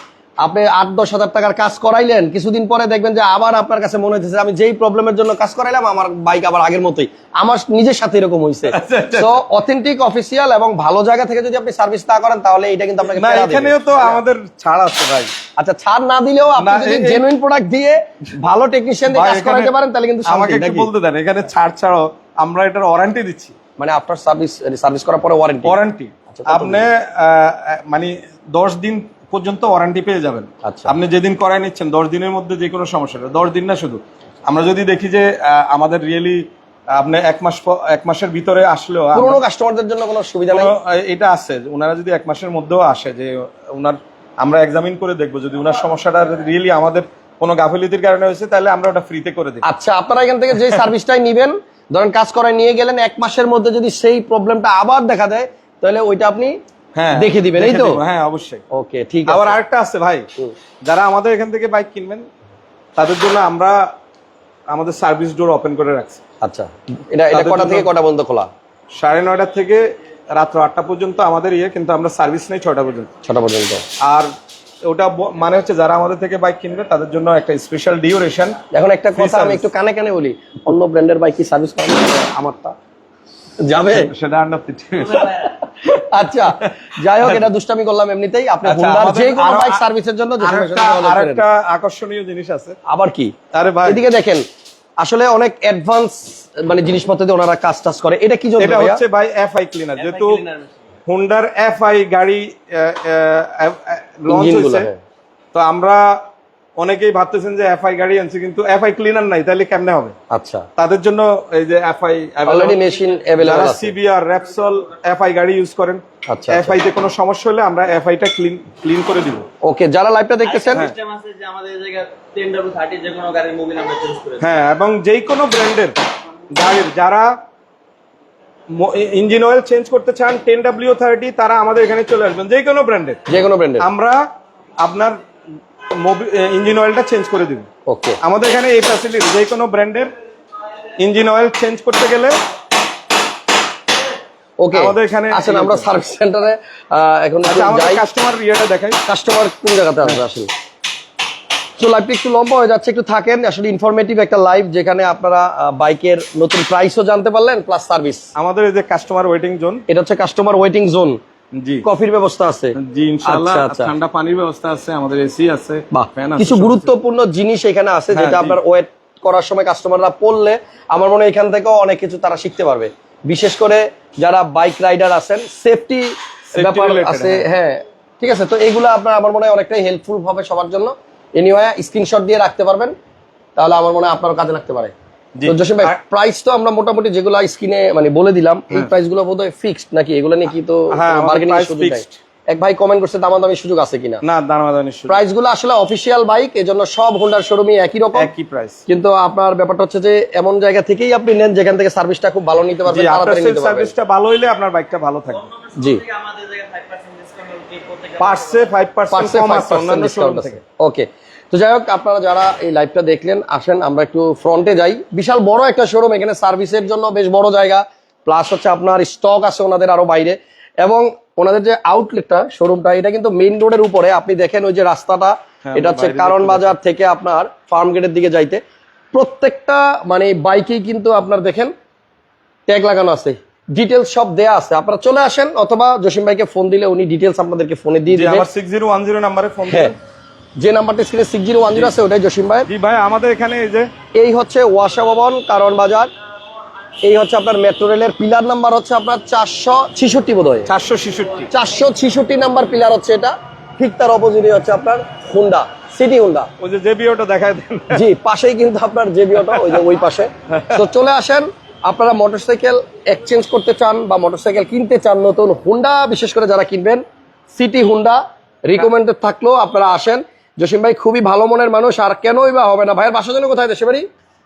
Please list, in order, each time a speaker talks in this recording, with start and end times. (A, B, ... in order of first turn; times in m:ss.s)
0:00.4-0:13.9 A
0:08.7-0:09.4 B
0:13.1-0:15.3 B
0:15.6-0:20.9 A
0:16.6-0:17.2 B
0:19.1-0:19.7 B
0:20.3-0:23.6 B
0:23.8-0:25.8 A
0:25.6-0:39.4 B
0:26.3-0:26.9 A
0:30.6-0:30.9 A
0:39.2-0:40.7 A
0:40.5-0:49.6 B
0:49.6-0:56.6 A
0:57.0-0:58.6 B
0:57.2-0:58.0 A
0:58.7-0:59.6 A
0:59.3-1:00.3 B
1:00.8-1:02.3 B
1:03.0-1:03.9 B
1:04.7-1:06.2 B
1:06.4-1:08.5 A
1:07.3-1:07.9 B
1:09.0-1:13.1 B
1:13.2-1:13.8 A
1:14.0-1:14.3 B
1:14.8-1:18.6 B
1:18.7-1:22.8 A
1:19.2-1:19.7 B
1:23.6-1:24.1 A
1:23.9-1:25.5 B
1:25.1-1:31.4 A
1:28.6-1:29.9 B
1:30.4-1:32.8 B
1:32.9-1:34.4 A
1:33.5-1:34.0 B
1:35.0-1:39.0 A
1:38.6-1:40.4 B
1:40.0-1:40.8 C
1:41.1-1:44.9 B
1:44.3-1:45.0 A
1:45.5-1:46.2 B
1:46.8-1:50.2 B
1:50.3-1:50.7 A
1:50.8-1:59.5 B
1:52.5-1:53.9 A
1:56.3-1:56.8 A
1:59.6-2:00.9 A
2:00.4-2:04.5 C
2:04.4-2:06.0 B
2:06.5-2:07.3 B
2:08.7-2:13.2 B
2:13.3-2:13.9 A
2:13.8-2:14.3 B
2:14.8-2:15.2 B
2:15.9-2:17.7 B
2:17.9-2:18.2 A
2:18.2-2:20.1 B
2:21.0-2:22.4 B
2:24.6-2:28.0 A
2:24.7-2:25.9 B
2:27.4-2:29.0 B
2:29.1-2:30.5 A
2:31.8-2:38.3 A
2:38.4-2:39.8 B
2:39.9-2:41.2 A
2:41.5-2:41.8 B
2:41.8-2:43.9 A
2:42.8-2:46.9 B
2:45.9-3:02.9 A
2:48.1-2:48.6 B
2:56.5-2:57.5 B
3:03.6-3:04.9 A
3:05.4-3:06.0 B
3:05.4-3:14.2 A
3:10.9-3:12.2 B
3:14.2-3:15.2 B
3:15.1-3:18.3 A
3:18.2-3:18.8 B
3:18.9-3:23.9 A
3:22.9-3:25.5 B
3:25.3-3:28.7 C
3:25.8-3:26.0 A
3:28.2-3:30.6 B
3:29.1-3:48.6 A
3:45.6-3:46.8 B
3:49.1-3:51.7 A
3:52.7-3:58.5 A
3:58.1-4:00.0 B
3:59.7-3:59.9 A
4:00.6-4:02.7 A
4:02.7-4:03.9 B
4:04.2-4:06.1 A
4:07.0-4:10.7 A
4:10.7-4:11.5 B
4:11.5-4:16.5 A
4:16.6-4:18.0 B
4:17.9-4:34.1 A
4:19.4-4:19.8 B
4:20.5-4:20.8 B